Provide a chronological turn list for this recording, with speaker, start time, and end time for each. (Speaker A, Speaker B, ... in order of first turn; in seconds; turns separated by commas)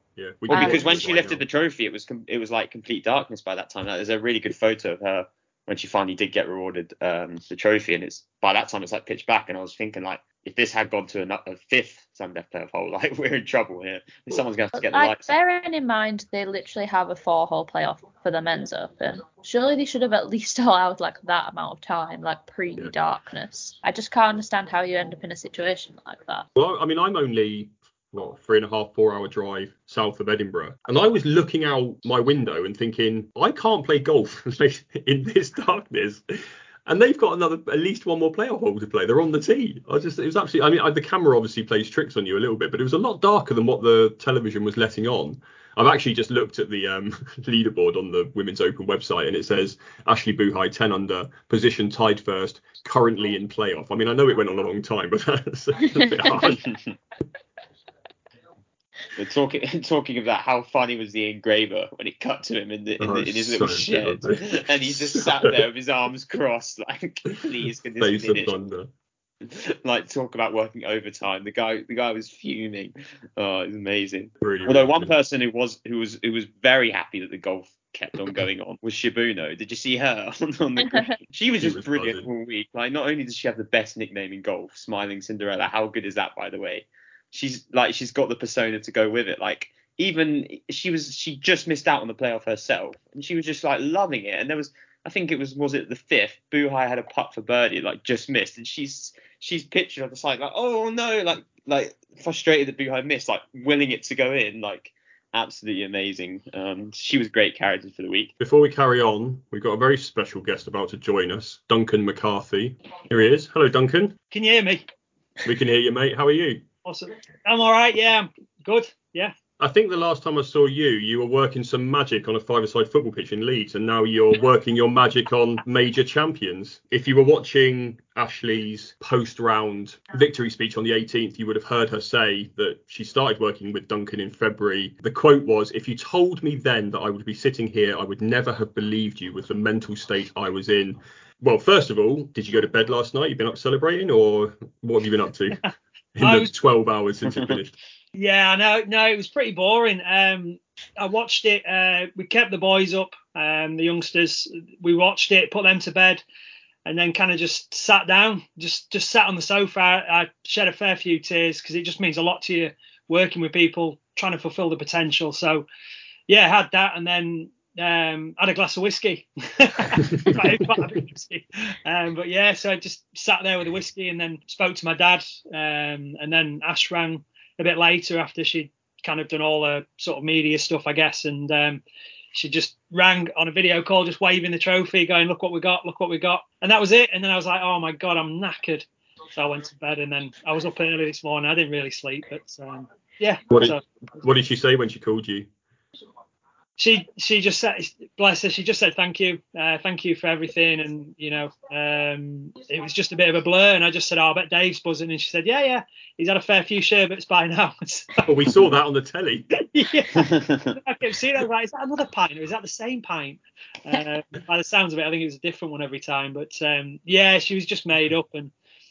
Speaker A: 0.2-1.4, Speaker B: 0.5-1.0, Speaker C: 0.5-15.3, Speaker B: 14.7-26.5, Speaker A: 26.6-56.6, Speaker C: 56.3-56.9, Speaker C: 59.2-68.5, Speaker A: 63.0-65.6, Speaker A: 68.0-68.9, Speaker C: 69.4-108.3, Speaker A: 74.4-75.1, Speaker B: 80.8-81.1, Speaker A: 81.6-82.3, Speaker A: 108.4-114.2, Speaker D: 114.3-114.9, Speaker A: 115.4-116.6, Speaker D: 116.8-119.3, Speaker A: 119.6-145.6, Speaker A: 146.2-147.8, Speaker D: 146.2-146.5, Speaker C: 147.3-147.6, Speaker D: 148.2-156.2, Speaker D: 156.8-165.7, Speaker D: 166.3-181.8, Speaker D: 182.3-193.8, Speaker A: 193.5-195.5, Speaker D: 196.8-208.2, Speaker A: 208.2-209.5, Speaker D: 209.6-218.5, Speaker C: 210.4-210.7